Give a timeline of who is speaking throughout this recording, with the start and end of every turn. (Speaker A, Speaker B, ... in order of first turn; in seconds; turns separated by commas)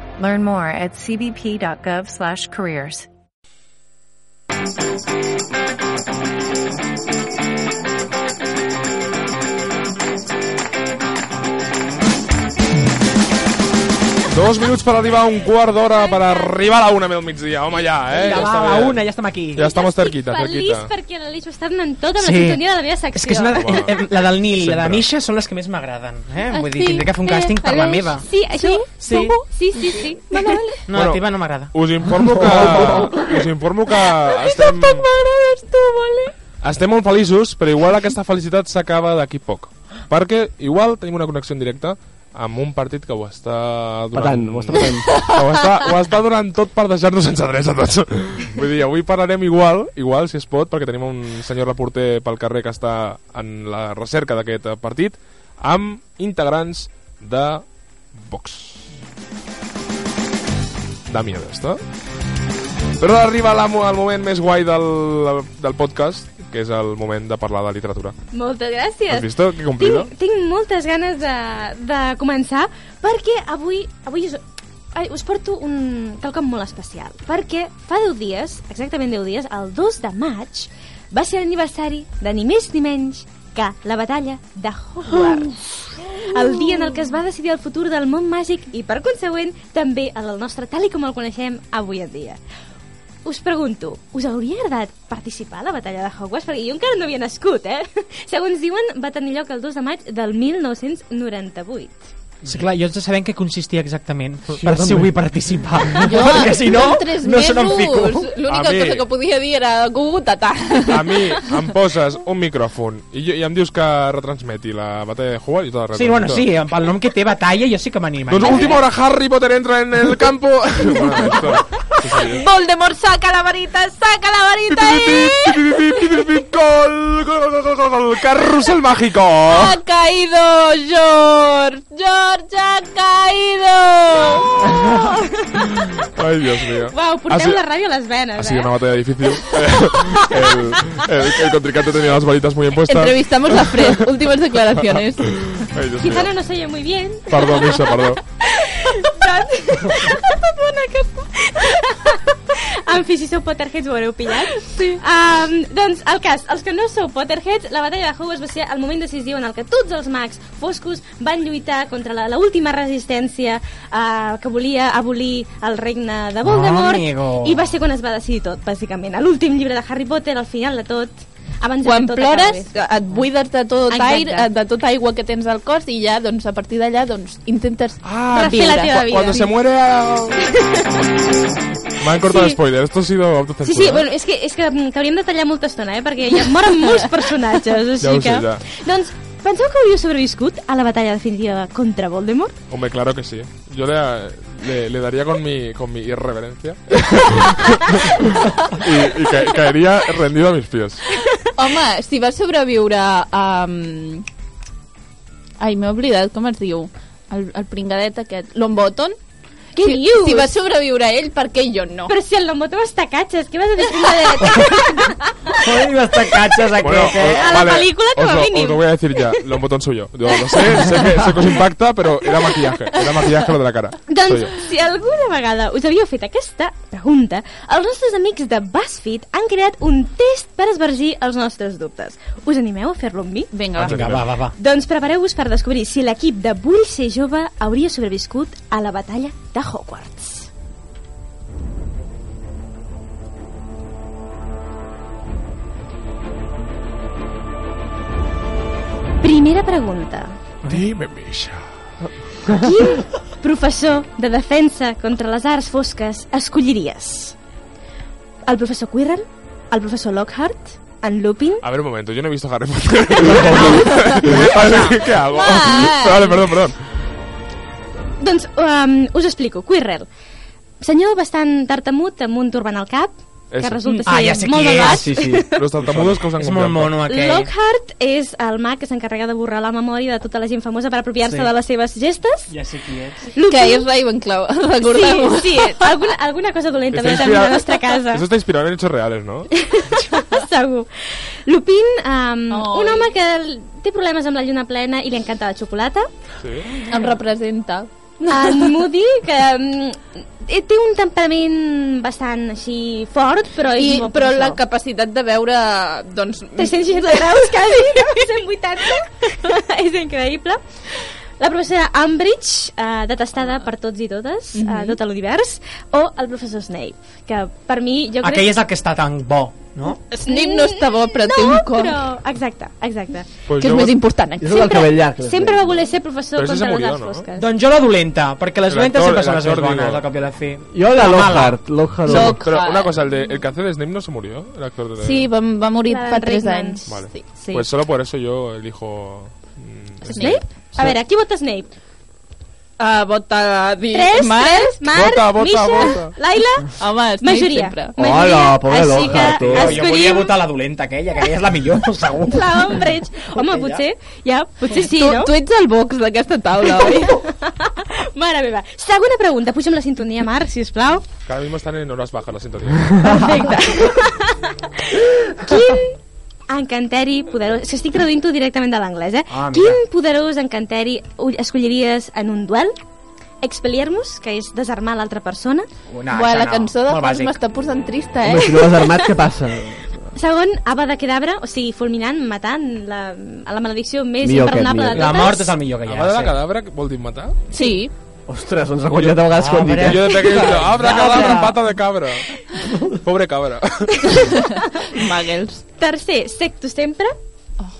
Speaker A: 0.2-3.1, Speaker B: 14.3-20.9, Speaker C: 15.9-16.6, Speaker D: 18.1-19.6, Speaker C: 19.6-23.9, Speaker D: 22.2-29.3, Speaker B: 23.5-23.9, Speaker B: 24.5-25.0, Speaker E: 26.5-28.9, Speaker C: 28.1-30.6, Speaker E: 29.9-30.8, Speaker D: 30.9-31.7, Speaker B: 30.9-35.0, Speaker F: 32.4-33.1, Speaker E: 32.5-36.3, Speaker B: 36.6-57.6, Speaker F: 44.1-45.1, Speaker E: 45.1-45.4, Speaker B: 58.2-58.9, Speaker B: 61.1-61.8, Speaker B: 63.0-68.1, Speaker C: 68.3-74.4, Speaker B: 69.1-70.1, Speaker C: 74.9-92.4, Speaker C: 93.2-102.0, Speaker D: 102.4-108.3, Speaker F: 104.6-105.1, Speaker E: 106.0-111.6, Speaker B: 108.4-109.0, Speaker B: 110.9-116.5, Speaker D: 115.9-118.8, Speaker B: 118.3-122.4, Speaker E: 121.0-126.0, Speaker B: 124.7-129.8, Speaker E: 129.5-134.5, Speaker C: 134.7-135.8, Speaker B: 136.0-137.6, Speaker C: 136.8-138.7, Speaker B: 138.3-144.1, Speaker C: 139.3-140.6, Speaker E: 142.8-145.3, Speaker B: 145.2-146.3, Speaker C: 146.0-172.7, Speaker B: 147.3-148.2, Speaker E: 154.6-155.0, Speaker D: 166.4-167.7, Speaker E: 171.8-179.4, Speaker C: 173.9-174.4, Speaker B: 178.0-180.5, Speaker C: 178.3-179.5, Speaker C: 180.4-181.1, Speaker B: 182.0-184.0, Speaker C: 182.2-182.6, Speaker C: 183.6-192.6, Speaker B: 188.0-188.6, Speaker B: 192.7-198.1, Speaker B: 198.8-201.0, Speaker E: 201.4-204.2, Speaker E: 205.6-209.2, Speaker C: 209.7-210.5, Speaker E: 209.8-212.1, Speaker C: 212.1-215.6, Speaker D: 214.4-214.9, Speaker D: 215.5-217.6, Speaker B: 216.8-224.5, Speaker C: 217.2-219.5, Speaker C: 220.3-220.9, Speaker C: 224.1-233.5, Speaker E: 233.5-234.1, Speaker D: 233.8-234.5, Speaker B: 233.8-234.2, Speaker C: 234.5-240.5, Speaker C: 249.2-250.4, Speaker B: 250.7-251.7, Speaker C: 252.5-257.4, Speaker C: 258.5-261.6, Speaker B: 261.6-266.8, Speaker D: 263.2-265.1, Speaker E: 263.6-264.0, Speaker E: 265.3-266.5, Speaker C: 268.2-270.1, Speaker C: 270.8-275.6, Speaker B: 273.5-273.8, Speaker D: 274.1-275.1, Speaker F: 274.8-276.1, Speaker B: 275.5-277.0, Speaker D: 276.3-277.5, Speaker C: 277.1-282.5, Speaker D: 281.2-281.5, Speaker D: 282.5-283.3, Speaker C: 283.3-283.9, Speaker E: 283.4-285.8, Speaker C: 284.8-288.2, Speaker B: 286.9-289.6, Speaker C: 289.5-296.1, Speaker E: 292.5-293.1, Speaker B: 296.4-296.7, Speaker E: 296.9-298.9, Speaker C: 298.2-304.6, Speaker E: 303.7-308.3, Speaker C: 306.6-318.5, Speaker E: 314.5-315.0, Speaker D: 318.2-320.0, Speaker E: 320.1-322.0, Speaker C: 320.3-323.3, Speaker B: 323.5-323.9, Speaker E: 323.6-324.6, Speaker F: 324.4-325.7, Speaker C: 324.5-327.5, Speaker B: 326.4-327.3, Speaker D: 327.3-331.6, Speaker B: 328.7-330.0, Speaker F: 330.7-332.4, Speaker E: 332.0-332.9, Speaker B: 332.1-335.3, Speaker E: 335.0-337.2, Speaker C: 335.8-337.7, Speaker B: 336.9-340.9, Speaker E: 340.0-340.4, Speaker C: 340.1-341.7, Speaker E: 342.8-344.8, Speaker C: 343.9-350.4, Speaker B: 344.9-346.1, Speaker E: 346.7-347.9, Speaker F: 348.0-349.8, Speaker D: 349.1-353.8, Speaker C: 352.3-355.3, Speaker E: 354.7-357.2, Speaker C: 356.7-361.1, Speaker B: 361.2-363.1, Speaker C: 363.0-366.0, Speaker C: 366.5-372.7, Speaker D: 369.3-369.8, Speaker C: 373.4-375.7, Speaker D: 375.9-377.4, Speaker E: 376.1-378.6, Speaker F: 378.2-379.9, Speaker C: 378.4-379.1, Speaker C: 380.1-385.5, Speaker F: 384.2-385.2, Speaker D: 384.9-386.4, Speaker B: 385.8-387.4, Speaker E: 387.5-387.9, Speaker F: 388.3-390.4, Speaker B: 388.9-389.3, Speaker D: 389.3-391.6, Speaker B: 389.8-392.3, Speaker B: 392.8-394.2, Speaker E: 394.9-395.6, Speaker C: 395.8-397.1